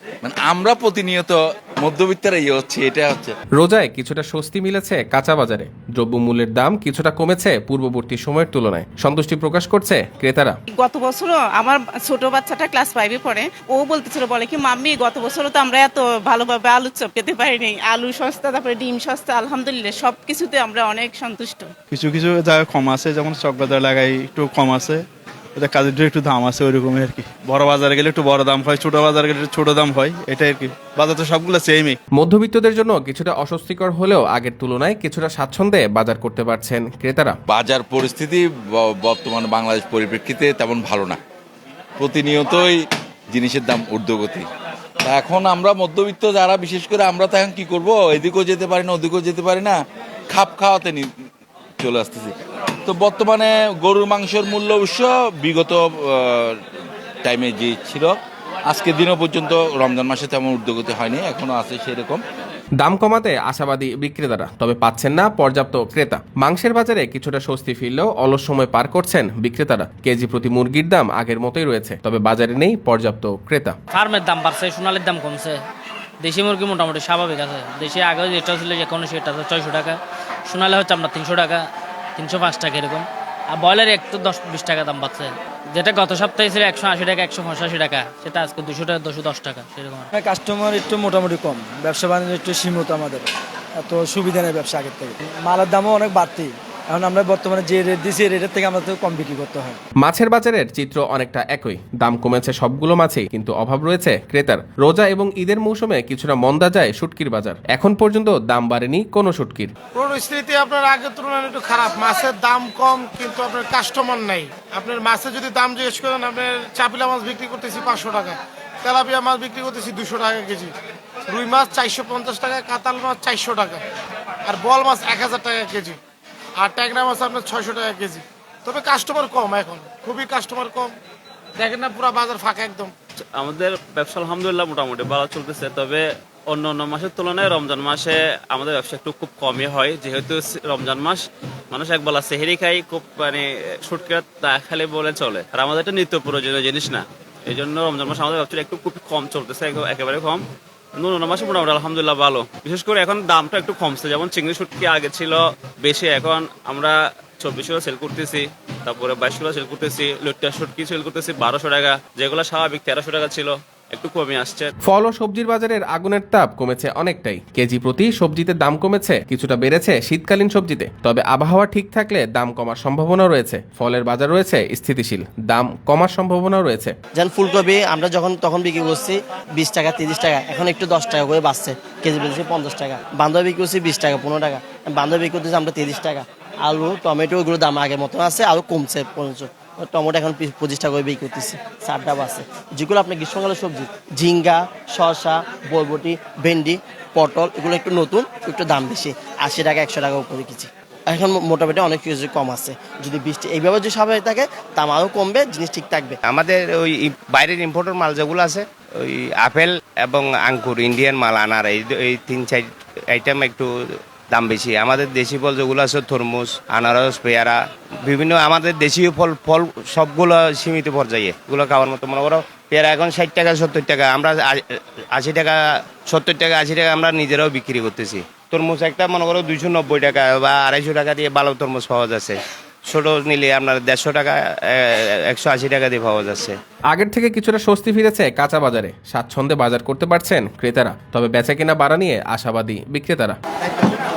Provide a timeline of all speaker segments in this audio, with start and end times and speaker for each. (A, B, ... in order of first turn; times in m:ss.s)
0:00.2-0:03.3 A
0:03.6-0:10.6 B
0:10.7-0:21.7 C
0:21.9-0:25.0 D
0:25.6-0:31.9 D
0:32.2-0:37.4 B
0:37.5-0:41.2 A
0:42.0-0:42.8 A
0:43.3-0:44.5 A
0:45.0-0:49.8 A
0:50.3-0:51.1 A
0:51.8-0:56.6 A
0:57.2-0:58.1 A
0:58.7-1:02.2 A
1:02.8-1:13.8 B
1:13.9-1:15.6 E
1:16.2-1:30.1 E
1:30.1-1:39.8 F
1:40.0-1:49.7 B
1:50.0-2:00.7 G
2:01.3-2:03.8 G
2:04.4-2:06.0 G
2:06.6-2:10.9 G
2:11.6-2:12.9 G
2:13.4-2:30.4 H
2:31.0-2:44.7 H
2:44.9-2:57.0 B
2:57.2-3:26.2 I
3:26.2-3:33.7 J
3:34.3-3:56.6 J
3:56.9-4:03.4 B